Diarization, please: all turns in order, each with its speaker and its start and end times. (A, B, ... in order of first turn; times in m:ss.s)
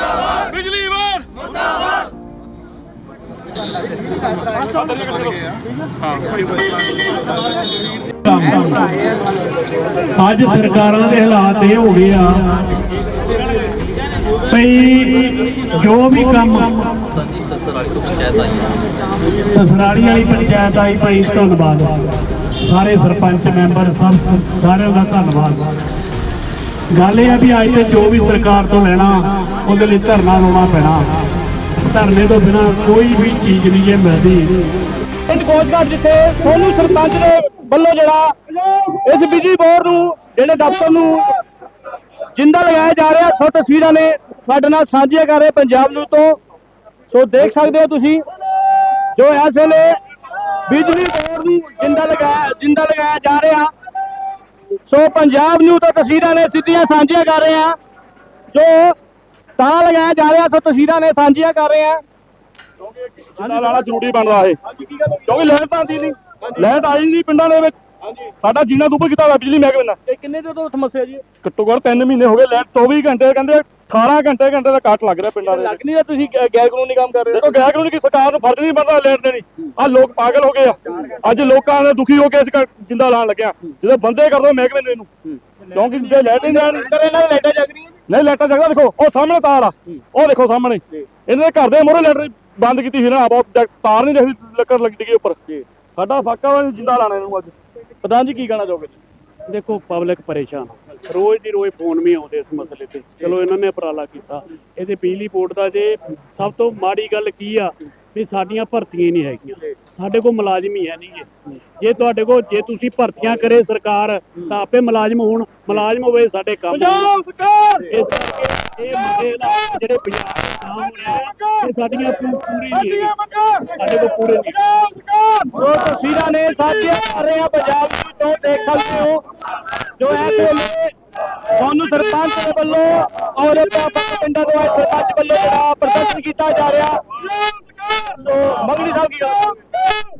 0:00.4-0:01.3 A
0:04.6-0:06.6 A
0:08.2-0:08.9 B
0:10.2-0:12.5 B
0:14.5-0:16.9 B
0:19.4-0:22.0 B
0:22.6-0:25.7 B
0:26.9-0:31.1 B
0:31.8-0:34.7 B
0:35.3-0:41.3 C
0:42.3-0:46.4 C
0:47.1-0:48.2 C
0:48.9-0:50.0 C
0:50.6-0:53.7 C
0:54.9-0:57.8 C
0:58.5-0:59.0 C
0:59.6-1:02.0 C
1:02.8-1:04.6 A
1:03.4-1:04.1 C
1:04.6-1:05.5 C
1:05.2-1:07.8 A
1:06.4-1:06.8 C
1:08.4-1:10.0 A
1:10.1-1:11.2 C
1:11.4-1:15.8 A
1:15.4-1:17.7 C
1:17.3-1:25.1 A
1:20.8-1:21.3 C
1:25.2-1:28.0 C
1:25.7-1:27.0 A
1:28.1-1:35.4 A
1:35.9-1:37.5 A
1:38.0-1:39.0 C
1:39.5-1:51.3 B
1:51.8-1:57.1 B
1:56.7-1:57.2 C
1:57.1-1:57.8 A
1:57.9-2:03.1 B
2:01.1-2:02.0 A
2:02.7-2:05.7 A
2:03.8-2:04.6 B
2:05.5-2:09.2 C
2:06.5-2:07.0 A
2:10.0-2:10.9 C
2:11.5-2:17.0 C
2:17.2-2:19.0 A
2:18.1-2:19.6 C